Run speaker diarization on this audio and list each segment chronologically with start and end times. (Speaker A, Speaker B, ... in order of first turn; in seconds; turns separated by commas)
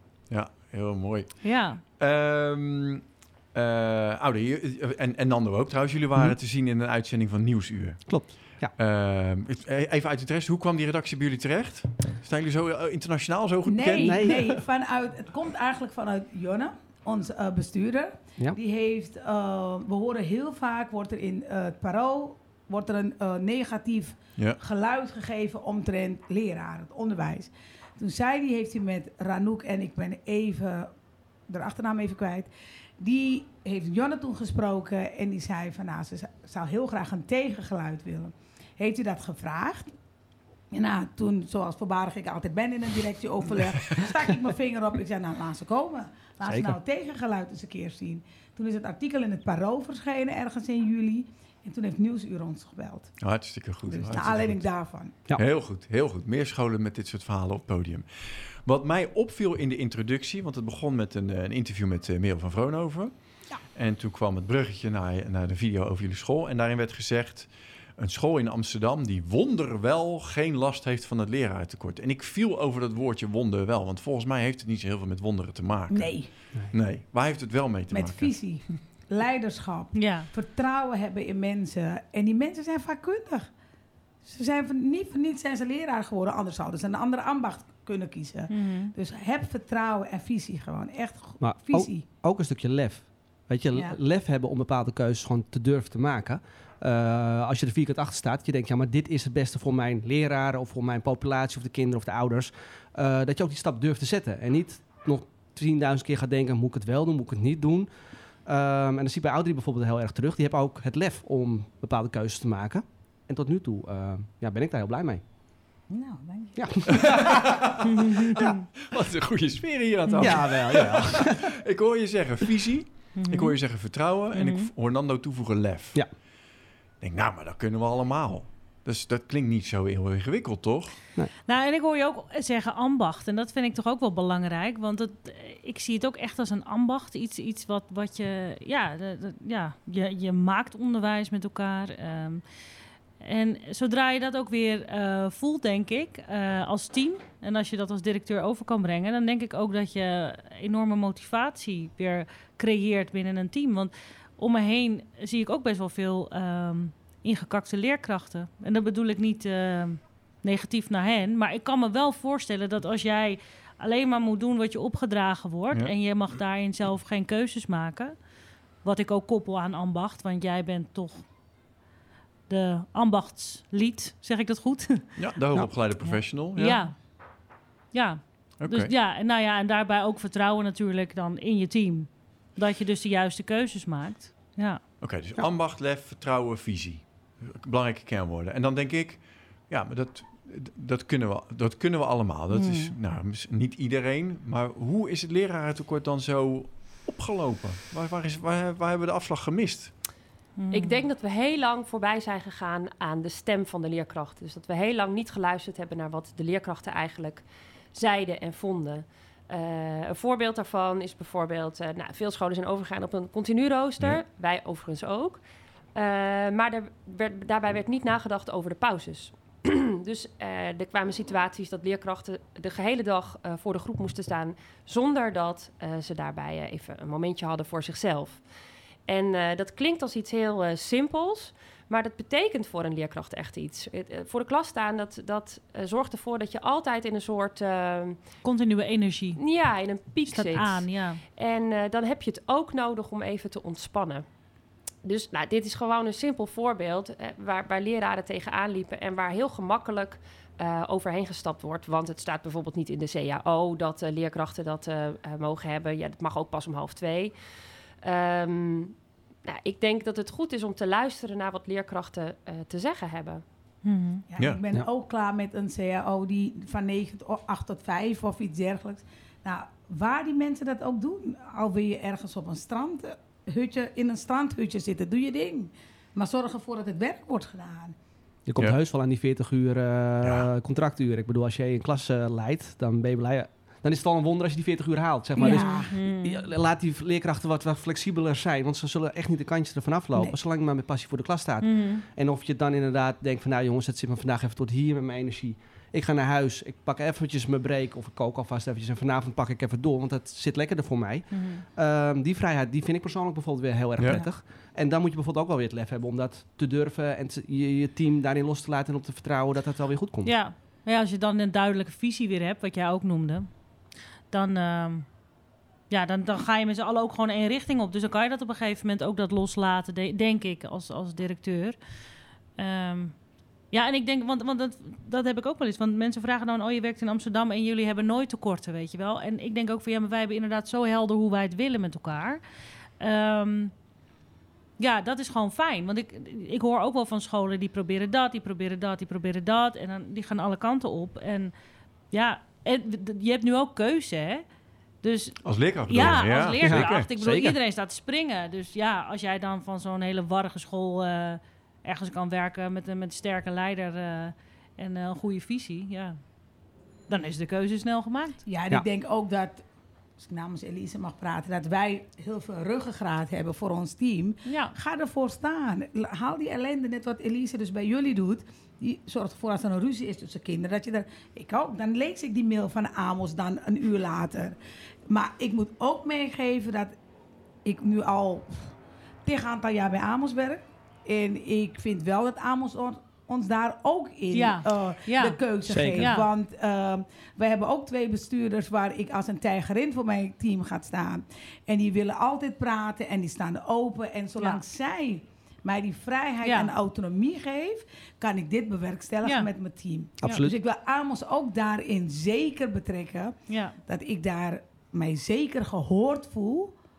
Speaker A: 0.3-14.6, Speaker B: 1.4-1.8, Speaker C: 8.1-8.8, Speaker D: 13.7-30.9, Speaker C: 14.0-14.5, Speaker D: 31.5-39.9, Speaker D: 40.7-53.2, Speaker A: 43.6-44.1, Speaker C: 46.4-46.8, Speaker A: 53.2-54.7, Speaker D: 53.9-55.2, Speaker A: 55.4-63.2, Speaker A: 63.7-78.7, Speaker D: 75.9-76.3, Speaker D: 77.9-83.5, Speaker B: 79.9-80.3, Speaker D: 84.2-92.1, Speaker B: 88.5-88.9, Speaker C: 91.4-115.2, Speaker D: 115.9-117.1, Speaker C: 116.6-117.3, Speaker A: 117.0-126.1, Speaker B: 117.9-118.5, Speaker B: 120.1-120.3, Speaker C: 120.2-121.5, Speaker B: 123.2-123.8, Speaker B: 124.3-124.7, Speaker A: 127.0-131.0, Speaker B: 131.5-142.4, Speaker B: 143.2-168.2, Speaker B: 168.8-171.2, Speaker B: 172.5-175.3, Speaker A: 175.2-176.8, Speaker B: 176.0-177.2, Speaker B: 177.9-184.8, Speaker A: 178.6-178.9, Speaker A: 185.0-199.9, Speaker B: 192.5-193.0, Speaker B: 200.6-200.9, Speaker E: 200.7-215.4, Speaker E: 215.9-228.4, Speaker E: 229.1-238.3, Speaker B: 238.4-239.4, Speaker E: 239.4-244.3, Speaker B: 240.2-241.2, Speaker E: 245.0-263.4, Speaker B: 263.8-264.2, Speaker D: 264.3-277.9, Speaker C: 278.5-310.4, Speaker A: 280.2-280.5, Speaker D: 285.4-286.0, Speaker B: 285.4-286.5, Speaker B: 291.6-292.1, Speaker B: 301.3-301.6, Speaker A: 304.0-304.2, Speaker B: 310.2-313.8, Speaker B: 314.3-315.1, Speaker B: 315.9-321.8, Speaker B: 322.6-323.2, Speaker B: 323.7-332.4, Speaker B: 333.0-333.7, Speaker B: 334.8-341.5, Speaker B: 342.1-344.4, Speaker B: 345.0-356.3, Speaker A: 345.4-347.1, Speaker C: 346.6-347.6, Speaker B: 357.1-358.4, Speaker D: 358.5-359.6, Speaker D: 360.2-374.6, Speaker B: 364.4-364.8, Speaker D: 375.1-377.0, Speaker D: 377.6-406.8, Speaker B: 384.3-385.4, Speaker C: 385.6-386.1, Speaker B: 385.9-386.3, Speaker B: 396.4-396.7, Speaker B: 399.2-399.5, Speaker C: 400.2-400.6, Speaker B: 403.5-403.8